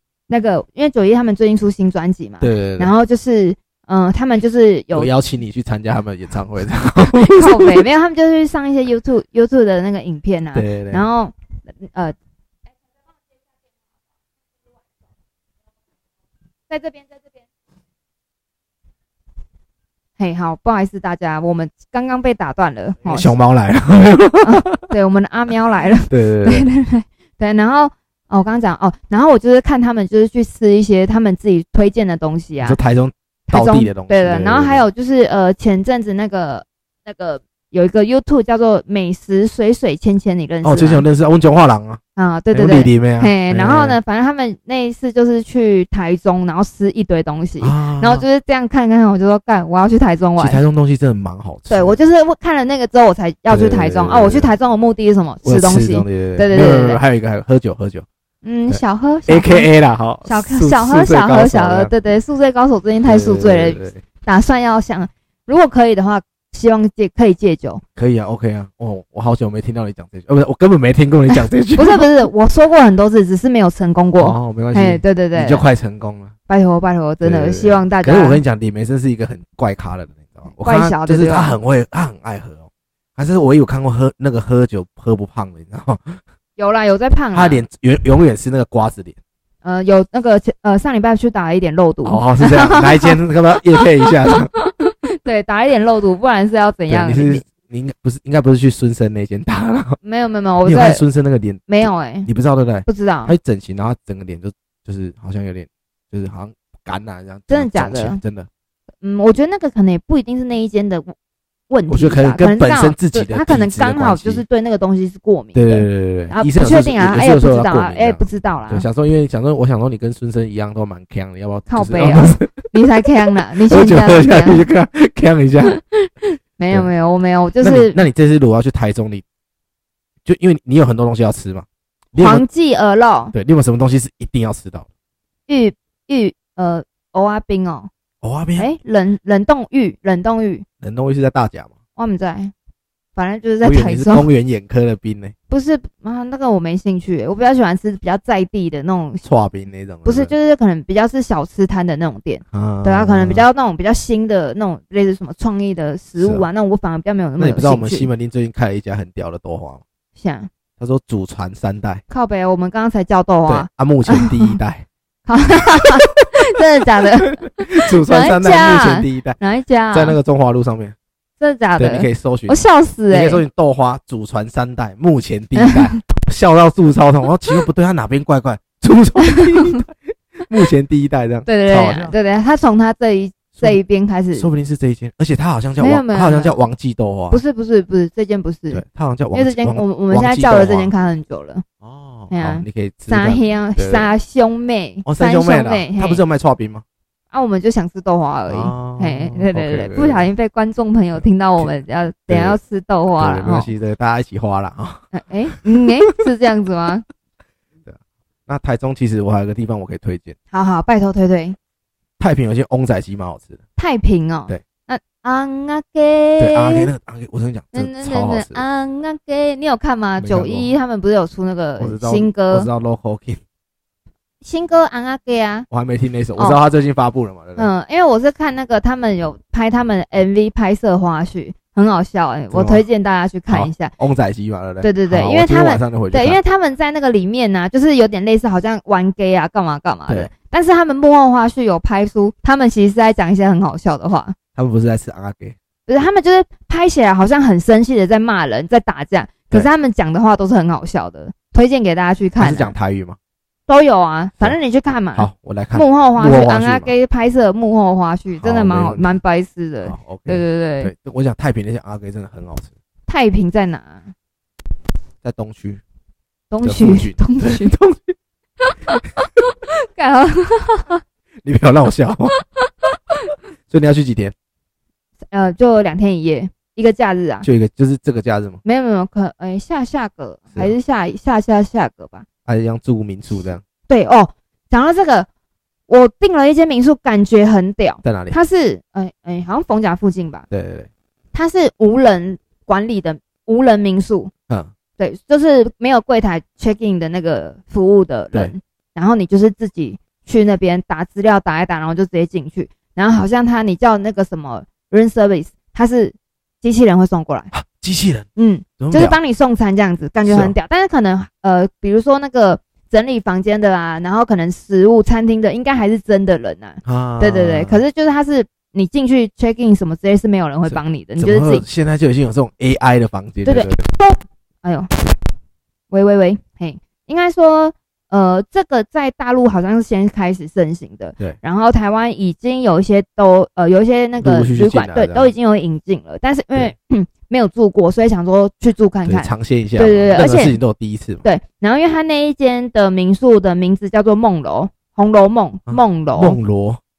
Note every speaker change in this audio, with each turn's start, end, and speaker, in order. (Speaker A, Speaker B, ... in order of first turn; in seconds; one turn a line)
Speaker A: 0.3-5.1
Speaker B: 2.4-2.9
Speaker B: 4.9-7.8
Speaker A: 7.0-12.2
Speaker B: 10.5-11.1
Speaker A: 16.7-17.2
Speaker A: 20.2-23.3
Speaker B: 23.1-24.9
Speaker A: 24.4-32.8
Speaker B: 26.1-26.7
Speaker B: 32.6-34.9
Speaker A: 33.5-41.0
Speaker B: 40.6-42.0
Speaker A: 42.2-50.6
Speaker B: 42.5-44.0
Speaker B: 47.6-48.2
Speaker B: 50.4-52.0
Speaker A: 51.7-57.0
Speaker B: 53.5-54.5
Speaker B: 55.4-58.1
Speaker A: 58.4-59.7
Speaker B: 58.7-61.9
Speaker A: 60.2-67.8
Speaker B: 63.0-64.0
Speaker B: 68.0-72.1
Speaker A: 71.4-75.7
Speaker B: 74.2-76.3
Speaker A: 76.5-78.4
Speaker B: 77.2-86.2
Speaker A: 80.6-81.6
Speaker A: 86.6-87.6
Speaker B: 87.3-89.2
Speaker A: 89.6-93.2
Speaker B: 92.0-94.5
Speaker A: 94.2-97.5
Speaker B: 96.9-100.0
Speaker A: 100.0-101.0
Speaker B: 100.7-108.5
Speaker A: 101.7-102.3
Speaker A: 102.9-103.3
Speaker A: 107.5-108.2
Speaker A: 109.0-111.2
Speaker A: 111.7-118.9
Speaker B: 111.9-114.4
Speaker B: 115.5-122.7
Speaker A: 121.7-124.7
Speaker B: 123.7-125.8
Speaker A: 125.7-128.0
Speaker B: 127.6-129.2
Speaker B: 130.2-132.4
Speaker A: 132.2-133.3
Speaker B: 133.3-134.9
Speaker A: 135.5-137.9
Speaker B: 138.2-138.7
Speaker A: 138.6-140.7
Speaker B: 140.8-141.7
Speaker A: 142.0-142.5
Speaker A: 143.2-144.3
Speaker B: 143.6-145.3
Speaker A: 145.5-149.2
Speaker B: 149.2-150.3
Speaker A: 150.1-158.1
Speaker B: 152.5-153.4
Speaker B: 156.2-156.4
Speaker B: 157.4-159.8
Speaker A: 160.2-160.5
Speaker B: 160.8-162.0
Speaker A: 162.1-164.6
Speaker B: 163.5-164.9
Speaker A: 165.3-170.2
Speaker B: 167.2-169.4
Speaker B: 169.9-171.0
Speaker A: 171.4-173.4
Speaker B: 171.8-182.2
Speaker A: 175.6-176.0
Speaker A: 179.3-179.8
Speaker A: 181.5-184.5
Speaker B: 184.4-187.4
Speaker A: 185.8-186.6
Speaker A: 187.3-191.6
Speaker B: 188.7-190.9
Speaker B: 191.8-194.1
Speaker A: 192.3-196.2
Speaker B: 195.1-196.8
Speaker A: 197.3-203.7
Speaker B: 198.5-200.3
Speaker B: 202.3-202.6
Speaker B: 203.1-205.6
Speaker A: 205.1-207.1
Speaker B: 207.9-210.3
Speaker A: 210.5-211.6
Speaker B: 212.2-213.6
Speaker A: 213.8-216.9
Speaker B: 216.4-218.6
Speaker A: 217.7-222.7
Speaker B: 220.2-220.7
Speaker B: 221.8-223.4
Speaker A: 224.4-225.7
Speaker B: 225.7-227.7
Speaker A: 227.6-233.9
Speaker B: 232.5-232.8
Speaker B: 233.5-236.4
Speaker A: 234.8-244.4
Speaker B: 244.6-245.6
Speaker A: 245.9-252.8
Speaker B: 252.4-253.2
Speaker A: 253.7-260.9
Speaker B: 255.2-256.9
Speaker B: 258.4-259.1
Speaker B: 259.9-262.7
Speaker A: 263.1-264.1
Speaker B: 265.2-265.8
Speaker A: 266.5-267.7
Speaker B: 266.6-268.2
Speaker A: 268.6-271.0
Speaker B: 271.4-272.4
Speaker A: 272.6-273.3
Speaker B: 273.7-274.4
Speaker A: 275.3-277.5
Speaker B: 277.4-278.6
Speaker A: 278.6-282.3
Speaker B: 282.5-283.6
Speaker A: 283.9-285.3
Speaker A: 285.9-290.5
Speaker B: 288.0-288.4
Speaker B: 290.5-290.9
Speaker A: 291.3-294.3
Speaker A: 295.0-307.5
Speaker B: 307.5-308.3
Speaker A: 308.4-321.6
Speaker B: 308.8-309.2
Speaker B: 310.3-310.5
Speaker B: 316.9-317.8
Speaker B: 320.7-323.9
Speaker A: 323.4-324.9
Speaker A: 325.9-340.6
Speaker B: 334.2-335.3
Speaker B: 339.1-341.2
Speaker A: 341.2-346.4
Speaker B: 345.7-346.8